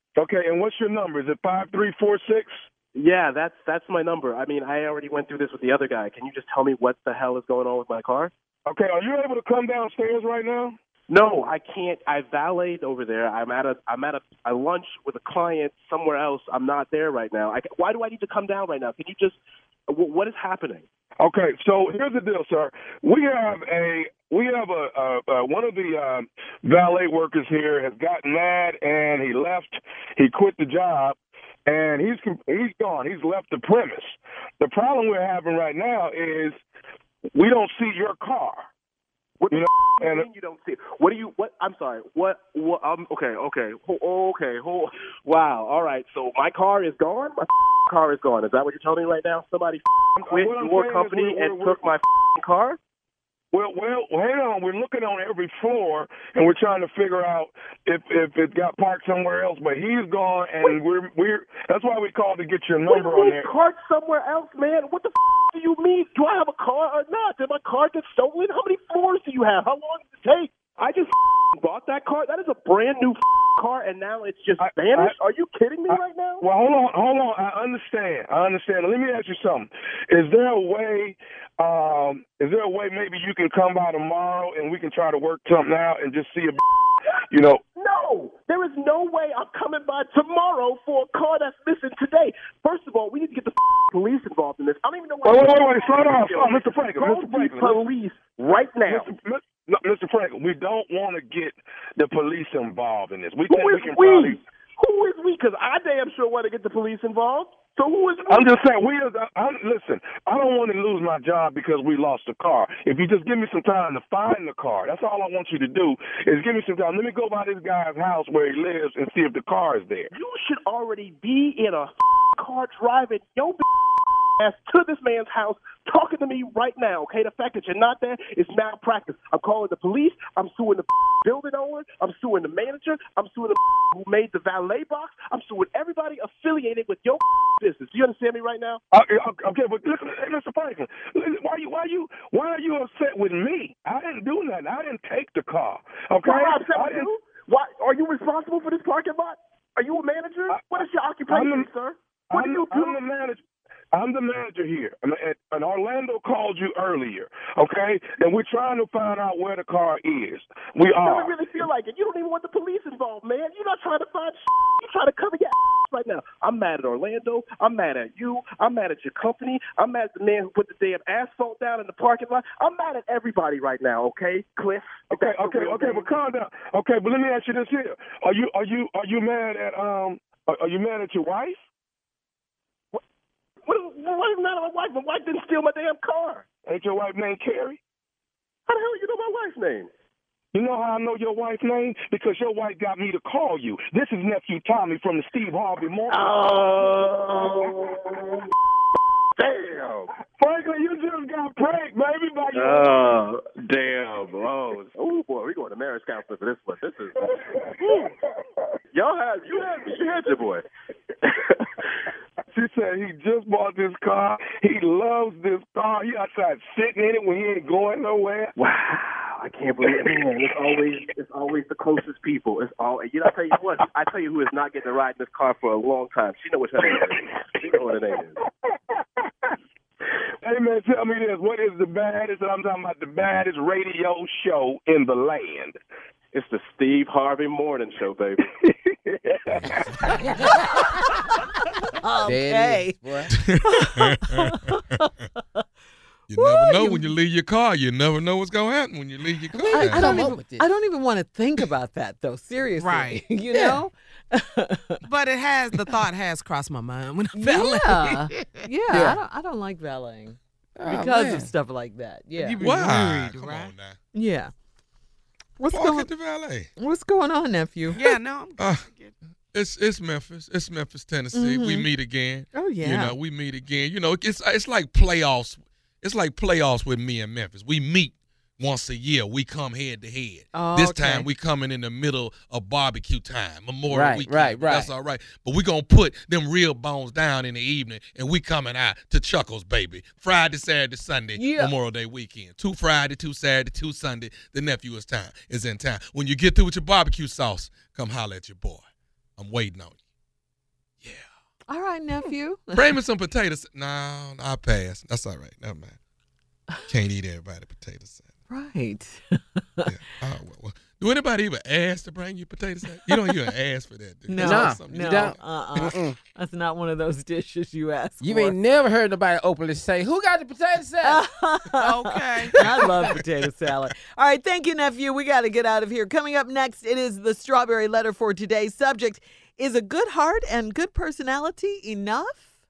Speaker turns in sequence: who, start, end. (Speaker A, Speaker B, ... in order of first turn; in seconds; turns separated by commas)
Speaker A: 0.2-2.7, Speaker B: 2.9-8.3, Speaker A: 8.7-10.8, Speaker B: 11.1-20.9, Speaker A: 21.2-36.6, Speaker A: 37.3-38.7, Speaker B: 39.4-52.8, Speaker A: 39.5-40.3, Speaker A: 50.2-51.8, Speaker A: 53.5-63.5, Speaker B: 62.9-76.4, Speaker A: 74.6-75.2, Speaker A: 75.9-86.6, Speaker A: 87.3-87.6, Speaker B: 87.8-99.1, Speaker A: 95.2-97.8, Speaker A: 98.9-104.4, Speaker B: 103.5-108.5, Speaker A: 108.3-120.1, Speaker B: 120.1-123.7, Speaker B: 124.4-138.8, Speaker A: 138.9-147.1, Speaker B: 146.2-153.0, Speaker A: 151.3-151.7, Speaker A: 152.3-153.4, Speaker A: 153.9-161.3, Speaker B: 161.0-176.1, Speaker A: 175.1-181.6, Speaker B: 183.7-186.4, Speaker A: 186.7-187.8, Speaker B: 188.7-189.9, Speaker A: 190.5-196.2, Speaker B: 196.1-197.6, Speaker B: 199.4-200.1, Speaker A: 200.4-202.9, Speaker B: 202.5-208.1, Speaker A: 207.3-207.7, Speaker B: 208.9-210.6, Speaker B: 211.2-211.8, Speaker A: 212.5-218.5, Speaker B: 218.6-228.4, Speaker A: 228.7-229.6, Speaker A: 230.4-235.8, Speaker B: 236.3-238.5, Speaker A: 238.7-239.9, Speaker C: 240.4-240.8, Speaker C: 242.0-243.0, Speaker D: 242.2-243.3, Speaker E: 243.3-244.7, Speaker C: 243.6-245.0, Speaker E: 246.3-250.2, Speaker C: 246.3-247.1, Speaker D: 249.4-250.7, Speaker C: 249.7-255.0, Speaker F: 252.8-253.8, Speaker D: 253.1-253.8, Speaker F: 255.1-259.1, Speaker C: 257.3-262.6, Speaker D: 260.8-261.5, Speaker F: 262.4-263.7, Speaker E: 262.6-264.0, Speaker C: 264.1-264.5, Speaker C: 265.6-266.1, Speaker E: 265.7-266.7, Speaker C: 266.8-268.0, Speaker F: 267.9-269.1, Speaker E: 268.6-268.9, Speaker E: 269.5-298.8, Speaker C: 271.3-271.9, Speaker C: 272.5-273.1, Speaker C: 280.5-281.3, Speaker D: 283.9-284.9, Speaker C: 291.4-291.7, Speaker E: 299.4-300.0, Speaker C: 301.7-302.8, Speaker E: 302.7-306.0, Speaker E: 306.9-308.3, Speaker C: 308.5-309.9, Speaker E: 309.9-315.9, Speaker C: 313.1-313.4, Speaker C: 314.3-318.6, Speaker D: 314.4-316.2, Speaker D: 318.2-321.2, Speaker C: 321.0-332.5, Speaker F: 321.8-322.6, Speaker D: 322.6-323.1